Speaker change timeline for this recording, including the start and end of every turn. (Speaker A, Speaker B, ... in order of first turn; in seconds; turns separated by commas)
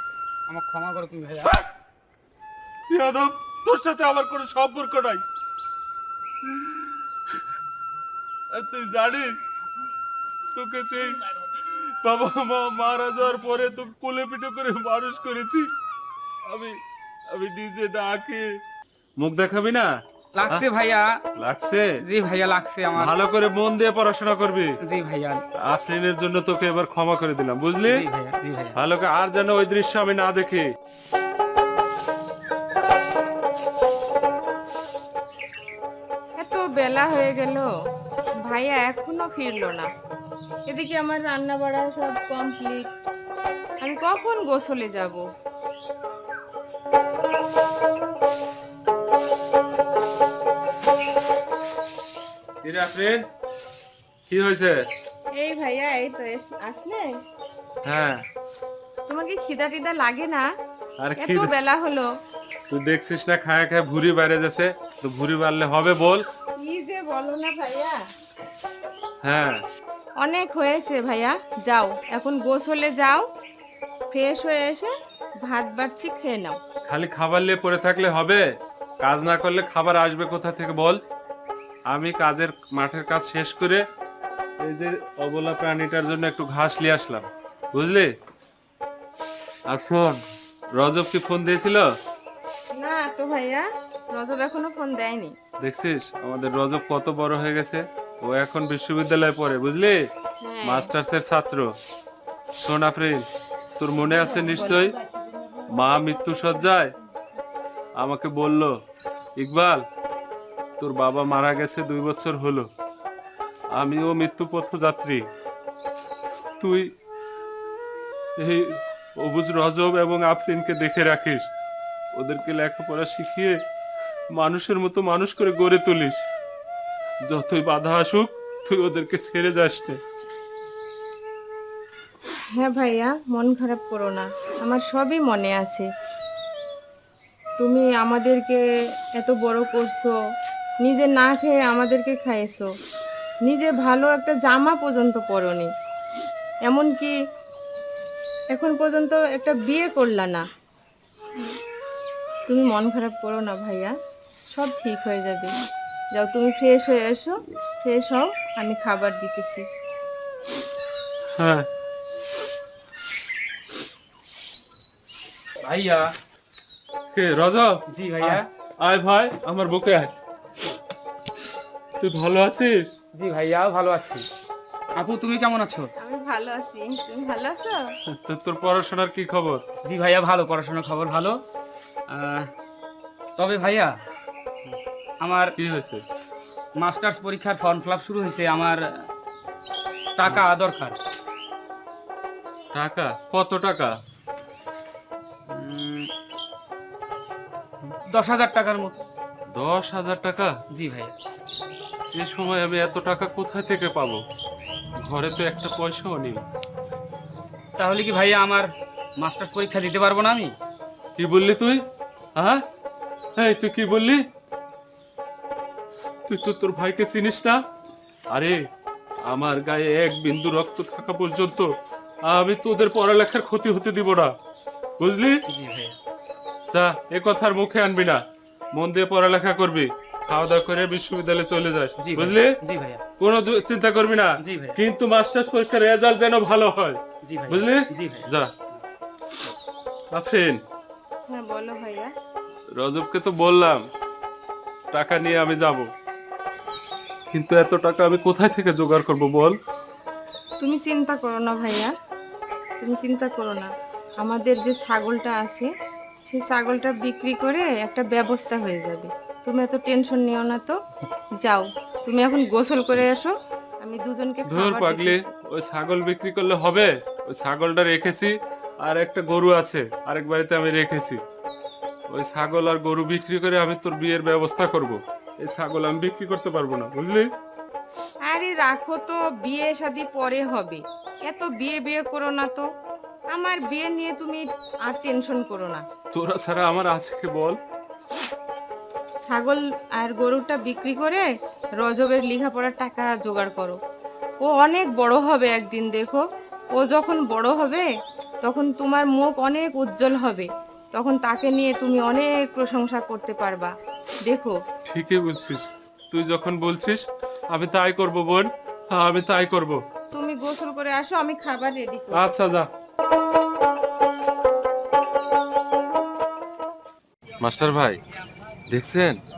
Speaker A: 0.5-1.6, Speaker B: 2.9-5.2, Speaker B: 6.5-7.0, Speaker B: 8.5-9.3, Speaker B: 10.5-15.7, Speaker B: 16.4-16.8, Speaker B: 17.3-18.5, Speaker B: 19.2-19.9, Speaker A: 20.4-21.1, Speaker B: 21.4-21.9, Speaker A: 22.0-23.1, Speaker B: 22.9-24.8, Speaker A: 24.8-25.4, Speaker B: 25.6-28.0, Speaker A: 27.9-28.8, Speaker B: 28.8-30.7, Speaker C: 36.4-37.7, Speaker C: 38.5-39.9, Speaker C: 40.7-42.9, Speaker C: 43.8-45.2, Speaker B: 52.6-53.2, Speaker B: 54.3-54.8, Speaker C: 55.3-57.1, Speaker B: 57.8-58.2, Speaker C: 59.1-60.5, Speaker B: 61.0-61.5, Speaker C: 61.2-62.1, Speaker B: 62.7-66.2, Speaker C: 66.6-68.0, Speaker B: 69.2-69.6, Speaker C: 70.2-73.2, Speaker C: 74.1-74.9, Speaker C: 75.4-76.6, Speaker B: 76.9-78.4, Speaker B: 79.0-81.0, Speaker B: 81.9-83.8, Speaker B: 84.6-88.1, Speaker B: 89.7-90.2, Speaker B: 90.8-91.9, Speaker C: 92.7-95.3, Speaker B: 95.6-100.0, Speaker C: 100.4-100.9, Speaker B: 100.6-101.7, Speaker B: 102.6-103.3, Speaker B: 103.8-104.9, Speaker C: 104.1-105.6, Speaker B: 105.7-106.9, Speaker B: 108.0-108.7, Speaker B: 109.4-109.8, Speaker B: 110.8-112.7, Speaker B: 113.7-115.2, Speaker B: 116.6-116.9, Speaker B: 118.4-121.5, Speaker B: 122.1-123.6, Speaker B: 124.3-126.2, Speaker B: 127.3-130.0, Speaker C: 132.6-135.9, Speaker C: 137.6-138.6, Speaker C: 139.2-140.2, Speaker C: 140.8-142.7, Speaker C: 143.4-145.7, Speaker C: 146.7-147.1, Speaker C: 148.5-150.4, Speaker C: 152.5-153.9, Speaker C: 154.5-155.5, Speaker C: 156.1-159.7, Speaker B: 161.4-161.7, Speaker A: 165.6-166.1, Speaker B: 167.1-170.1, Speaker A: 167.9-168.4, Speaker B: 172.0-172.9, Speaker A: 173.2-174.3, Speaker A: 175.0-175.9, Speaker C: 176.0-177.8, Speaker B: 178.1-179.6, Speaker A: 179.8-181.4, Speaker A: 182.1-182.5, Speaker A: 183.4-183.9, Speaker A: 185.2-185.6, Speaker B: 185.6-186.0, Speaker A: 186.8-189.1, Speaker A: 190.2-191.0, Speaker B: 192.7-193.9, Speaker A: 195.5-196.1, Speaker A: 198.1-199.0, Speaker B: 199.5-200.6, Speaker A: 200.7-201.1, Speaker B: 202.1-204.2, Speaker B: 205.0-206.4, Speaker A: 207.8-210.6, Speaker B: 211.2-211.8, Speaker B: 212.4-212.6, Speaker B: 213.4-214.2, Speaker B: 216.3-217.6, Speaker B: 218.3-218.6, Speaker B: 219.3-221.7, Speaker B: 222.2-224.3, Speaker B: 225.0-225.4, Speaker A: 225.5-226.0, Speaker B: 226.7-232.6, Speaker A: 232.0-233.0, Speaker B: 233.2-238.5, Speaker A: 234.4-234.8, Speaker A: 237.2-238.8, Speaker B: 240.1-240.6, Speaker C: 241.3-242.1, Speaker B: 242.8-243.8, Speaker B: 244.9-245.9, Speaker B: 247.3-249.6, Speaker C: 250.6-251.9, Speaker C: 252.8-255.7, Speaker C: 256.3-260.8, Speaker C: 261.4-265.3, Speaker B: 264.5-271.2, Speaker B: 272.1-277.3, Speaker C: 278.3-282.7, Speaker C: 283.3-285.8, Speaker B: 286.1-287.6, Speaker C: 289.2-291.3, Speaker C: 291.8-293.8, Speaker C: 294.4-297.9, Speaker C: 298.4-303.7, Speaker C: 304.3-304.6, Speaker B: 304.9-309.8, Speaker C: 310.1-312.3, Speaker B: 312.1-312.7, Speaker B: 317.4-318.0, Speaker B: 318.7-319.2